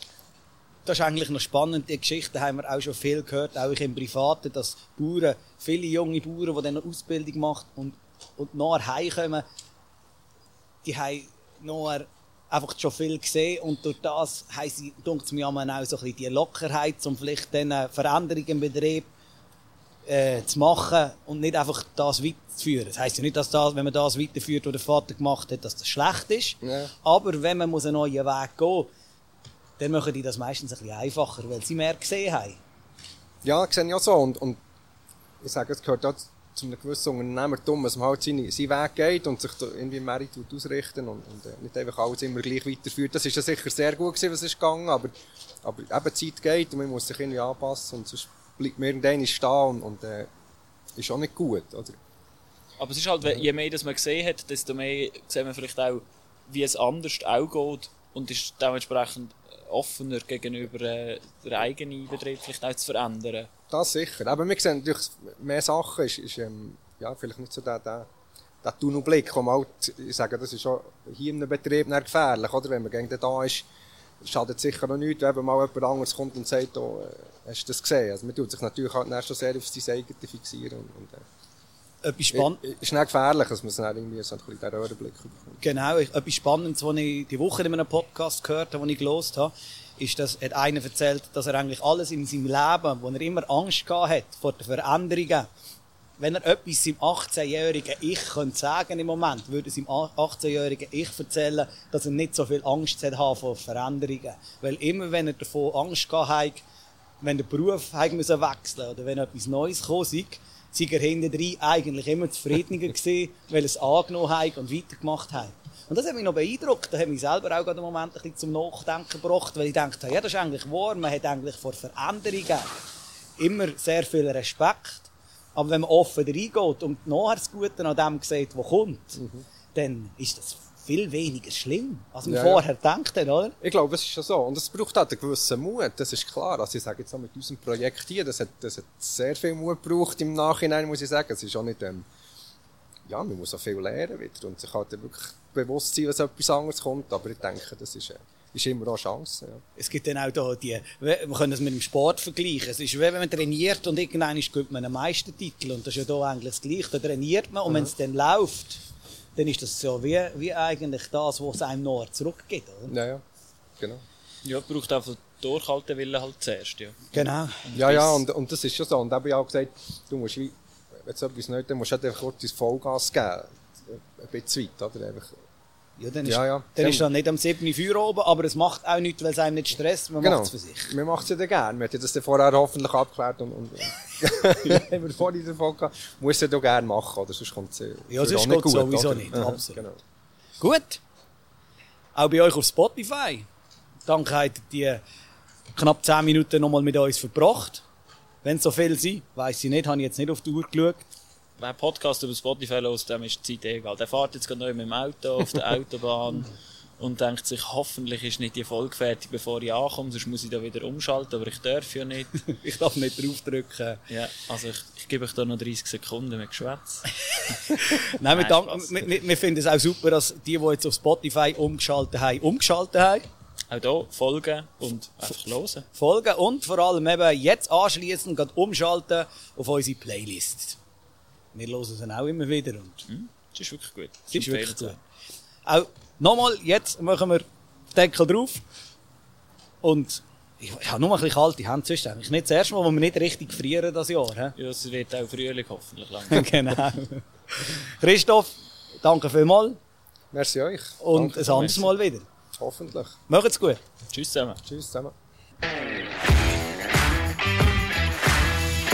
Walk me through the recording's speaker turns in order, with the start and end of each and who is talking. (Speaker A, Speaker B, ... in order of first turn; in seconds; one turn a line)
Speaker A: 0.8-9.4
Speaker A: 10.8-19.1
Speaker A: 20.1-28.9
Speaker B: 26.6-26.9
Speaker A: 29.8-32.6
Speaker B: 33.4-34.6
Speaker B: 35.4-45.1
Speaker B: 45.6-50.3
Speaker B: 51.0-52.0
Speaker C: 52.8-63.5
Speaker B: 63.7-68.1
Speaker B: 68.6-73.7
Speaker B: 74.2-81.2
Speaker A: 82.0-82.6
Speaker B: 82.3-85.6
Speaker A: 85.6-95.5
Speaker A: 96.2-106.6
Speaker A: 107.2-122.7
Speaker A: 123.4-129.2
Speaker B: 129.2-129.4
Speaker A: 129.7-133.6
Speaker B: 132.2-132.6
Speaker B: 133.6-142.0
Speaker B: 143.1-149.6
Speaker A: 149.8-158.8
Speaker A: 159.3-162.9
Speaker B: 162.9-163.2
Speaker C: 164.4-168.2
Speaker A: 167.1-167.7
Speaker B: 167.7-175.3
Speaker A: 176.0-180.9
Speaker B: 176.2-177.1
Speaker B: 180.2-190.0
Speaker A: 188.1-189.8
Speaker A: 190.6-191.0
Speaker A: 192.1-193.4
Speaker A: 194.1-195.0
Speaker A: 195.7-197.8
Speaker A: 198.4-201.1
Speaker C: 201.6-212.4
Speaker A: 212.5-214.0
Speaker C: 214.1-217.1
Speaker A: 217.3-223.2
Speaker C: 217.9-219.0
Speaker C: 223.7-225.8
Speaker A: 225.9-230.8
Speaker A: 231.5-233.0
Speaker C: 233.1-235.0
Speaker A: 234.3-235.0
Speaker A: 235.6-238.6
Speaker A: 239.8-244.5
Speaker C: 244.6-246.5
Speaker A: 246.3-249.8
Speaker B: 250.3-251.7
Speaker A: 251.0-252.3
Speaker C: 251.5-251.8
Speaker B: 252.6-253.1
Speaker A: 253.3-253.8
Speaker C: 254.1-254.6
Speaker B: 254.6-255.1